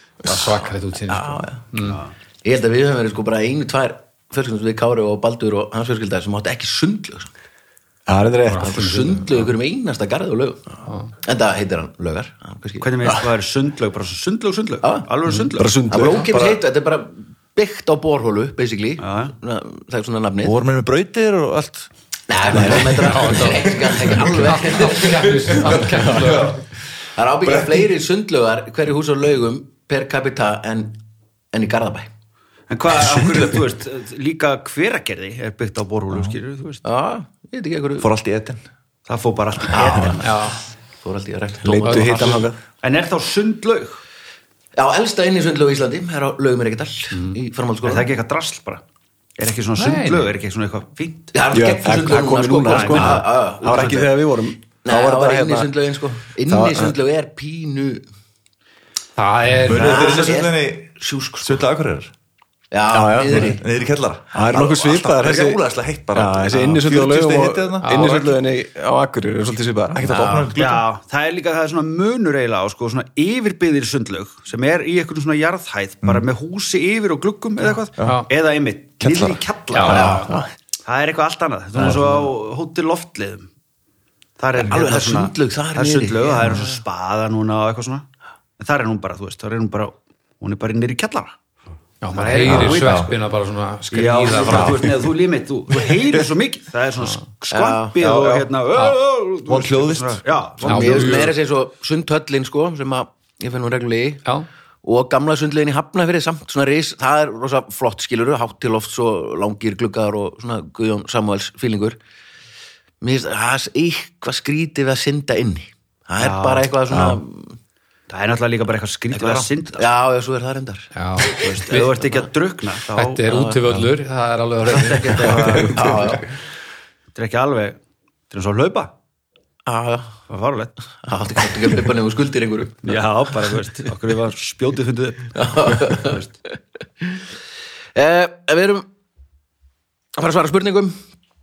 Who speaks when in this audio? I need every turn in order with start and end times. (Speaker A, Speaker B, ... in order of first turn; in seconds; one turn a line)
Speaker A: 0.3-2.0
Speaker B: 1.1-1.6
Speaker C: 1.8-2.1
Speaker B: 2.4-7.3
Speaker D: 8.1-8.8
Speaker A: 8.5-9.3
Speaker B: 8.6-10.7
Speaker B: 11.2-12.9
Speaker C: 12.8-15.7
Speaker D: 15.6-16.3
Speaker B: 15.9-20.6
Speaker E: 16.3-16.6
Speaker C: 19.0-19.3
Speaker E: 20.4-21.9
Speaker B: 22.3-25.8
Speaker E: 22.5-24.4
Speaker D: 22.6-22.9
Speaker A: 22.8-26.6
Speaker E: 25.0-26.6
Speaker D: 26.1-26.4
Speaker B: 27.2-31.0
Speaker E: 27.5-27.8
Speaker B: 31.5-32.1
Speaker C: 32.7-36.8
Speaker E: 36.1-36.4
Speaker B: 36.8-38.1
Speaker E: 38.0-38.6
Speaker C: 39.1-40.4
Speaker B: 39.7-40.3
Speaker A: 40.2-40.6
Speaker B: 41.0-42.5
Speaker D: 41.6-42.6
Speaker A: 41.9-42.5
Speaker C: 42.8-44.0
Speaker B: 44.8-48.1
Speaker A: 47.1-47.4
Speaker C: 47.8-48.8
Speaker C: 49.4-51.4
Speaker A: 49.8-50.3
Speaker B: 51.3-54.1
Speaker D: 51.5-55.7
Speaker C: 52.6-53.2
Speaker B: 54.8-58.0
Speaker D: 56.5-56.9
Speaker A: 59.2-60.2
Speaker E: 59.7-62.1
Speaker B: 59.7-61.6
Speaker B: 62.7-63.6
Speaker D: 62.9-63.6
Speaker E: 63.3-68.3
Speaker D: 64.3-65.6
Speaker D: 66.1-70.4
Speaker A: 67.8-68.3
Speaker E: 69.9-70.8
Speaker B: 70.0-70.5
Speaker C: 70.5-80.2
Speaker E: 78.0-78.2
Speaker A: 78.0-78.3
Speaker E: 79.0-80.2
Speaker A: 79.7-80.3
Speaker B: 79.8-80.4
Speaker D: 79.9-80.5
Speaker C: 80.8-83.5
Speaker C: 84.4-88.1
Speaker B: 84.5-86.7
Speaker C: 88.6-91.3
Speaker A: 92.0-94.9
Speaker C: 92.1-93.1
Speaker E: 92.4-93.1
Speaker C: 93.9-101.3
Speaker E: 94.5-95.0
Speaker E: 95.7-96.0
Speaker B: 97.5-98.4
Speaker E: 99.5-100.2
Speaker B: 100.6-104.2
Speaker A: 100.6-101.3
Speaker B: 104.8-112.0
Speaker B: 113.0-117.6
Speaker C: 116.2-116.7
Speaker E: 116.9-117.2
Speaker C: 118.1-119.8
Speaker B: 119.1-120.9
Speaker A: 121.0-122.0
Speaker C: 121.3-123.3
Speaker A: 123.0-125.8
Speaker B: 123.3-123.8
Speaker C: 124.7-126.1
Speaker D: 125.2-126.1
Speaker B: 125.4-126.2
Speaker C: 127.2-127.8
Speaker C: 128.3-128.9
Speaker B: 129.7-130.2
Speaker C: 130.3-130.8
Speaker B: 131.0-133.0
Speaker C: 132.8-136.3
Speaker B: 135.3-136.2
Speaker B: 137.0-137.2
Speaker B: 137.9-138.9
Speaker B: 140.2-141.0